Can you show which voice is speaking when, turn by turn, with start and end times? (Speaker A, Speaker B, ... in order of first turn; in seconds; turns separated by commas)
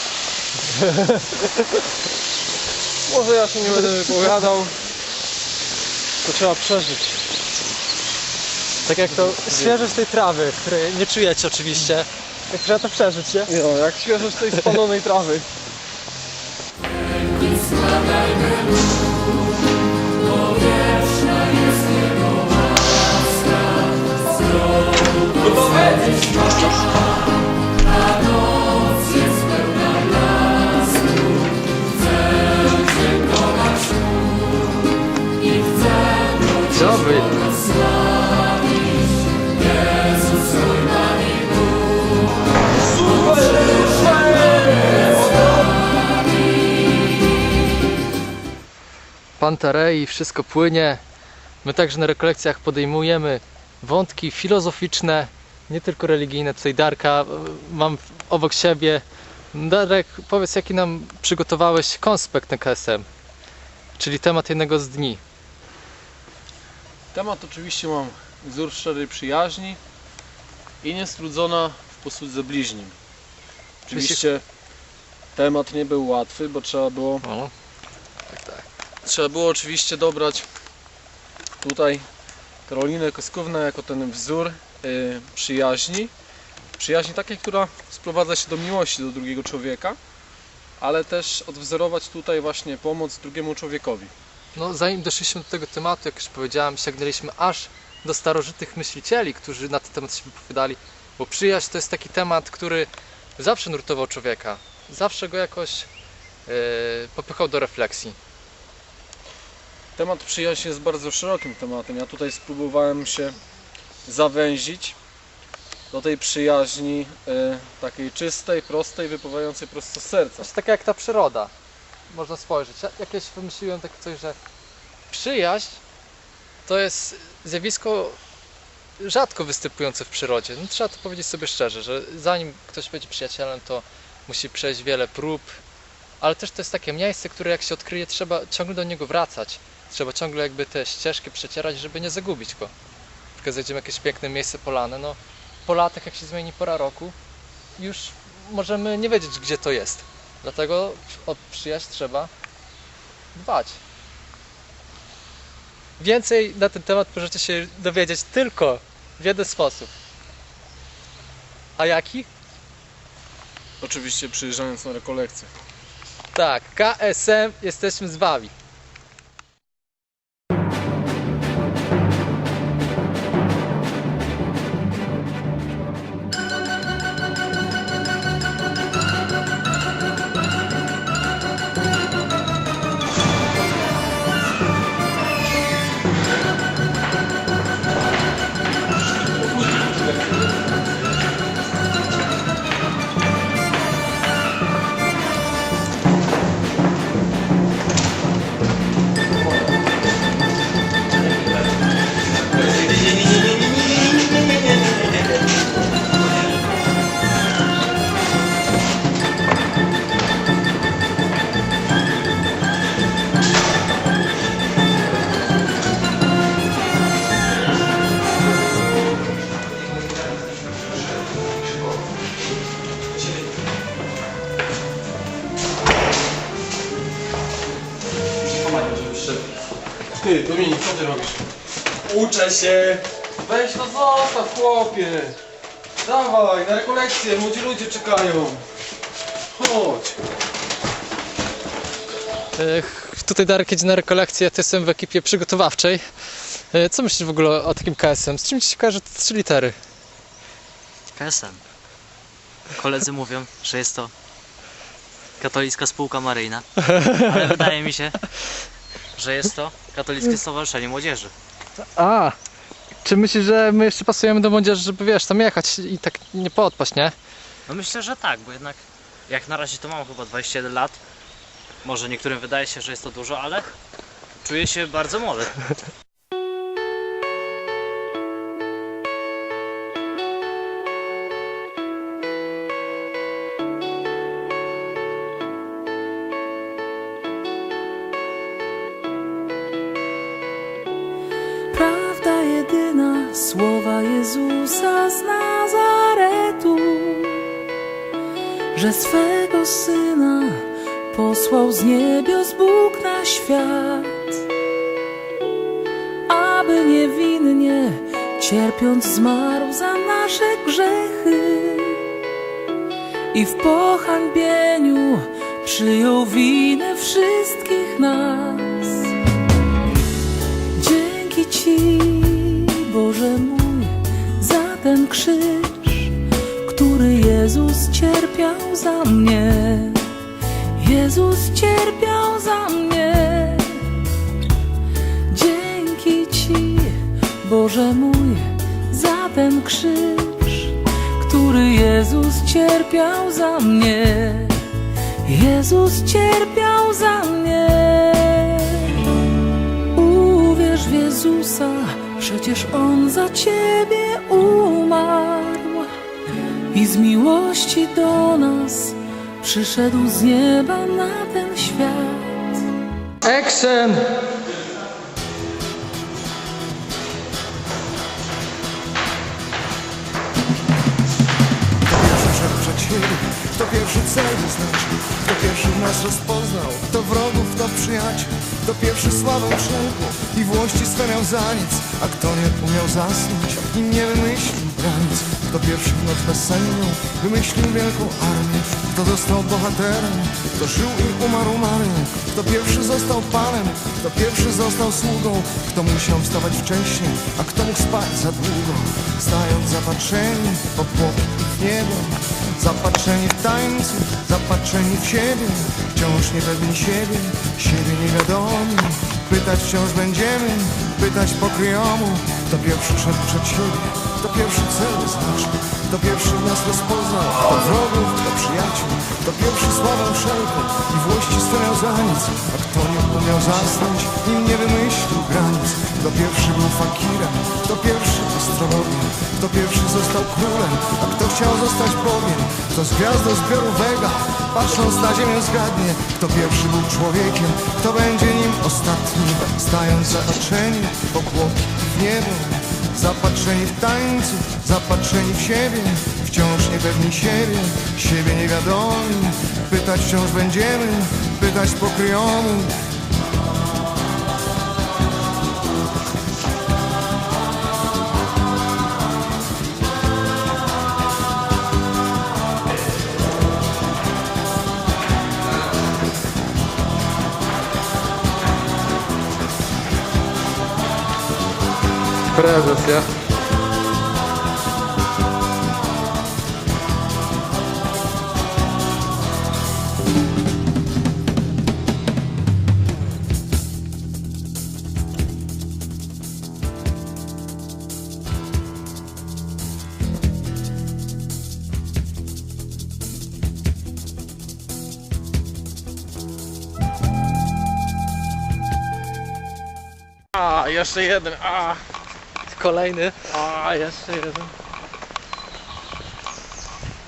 Speaker A: 0.8-1.5, Speaker B: 3.1-4.8, Speaker B: 6.2-7.2, Speaker A: 8.8-13.5, Speaker B: 13.5-15.5, Speaker A: 36.6-37.5, Speaker A: 49.4-51.0, Speaker A: 51.6-63.0, Speaker A: 64.0-65.2, Speaker B: 67.1-69.8, Speaker B: 70.8-72.9, Speaker B: 73.8-74.4, Speaker A: 73.9-74.2, Speaker B: 75.3-77.2, Speaker A: 77.2-77.5, Speaker A: 78.3-78.6, Speaker B: 79.0-80.5, Speaker B: 81.6-82.0, Speaker B: 82.7-86.1, Speaker B: 86.8-90.0, Speaker B: 90.8-94.1, Speaker A: 94.5-105.9, Speaker A: 106.5-108.2, Speaker B: 110.0-113.4, Speaker B: 114.0-115.0, Speaker B: 115.9-120.5, Speaker A: 120.4-121.5, Speaker A: 122.1-124.4, Speaker A: 125.1-125.8, Speaker A: 126.7-128.2, Speaker A: 129.0-135.5, Speaker A: 136.2-142.7, Speaker A: 143.4-147.1, Speaker A: 147.8-152.3, Speaker A: 153.3-153.8, Speaker A: 156.0-159.9, Speaker A: 161.8-162.3, Speaker B: 163.8-165.5, Speaker A: 166.3-168.5, Speaker B: 228.8-229.2, Speaker B: 230.2-231.4, Speaker B: 232.1-235.4, Speaker B: 236.0-238.7, Speaker B: 239.5-240.2, Speaker A: 242.6-246.0, Speaker A: 246.6-249.7, Speaker C: 251.1-251.6, Speaker C: 252.7-254.1, Speaker C: 255.4-256.6, Speaker A: 256.8-257.5, Speaker C: 257.2-258.2, Speaker C: 259.1-261.3, Speaker A: 262.0-262.4, Speaker A: 263.0-267.1, Speaker C: 267.7-271.0, Speaker C: 271.8-273.7, Speaker C: 274.4-275.6, Speaker D: 291.7-297.5, Speaker D: 298.7-304.4, Speaker D: 306.3-312.1, Speaker D: 313.3-319.1, Speaker D: 320.7-330.1, Speaker D: 330.7-334.1, Speaker D: 335.3-344.7, Speaker D: 345.2-349.0, Speaker D: 349.9-355.9, Speaker D: 356.7-362.6, Speaker A: 363.2-364.1, Speaker E: 371.9-452.8, Speaker A: 472.3-473.1, Speaker B: 500.3-501.8, Speaker A: 502.5-503.4, Speaker B: 503.5-504.4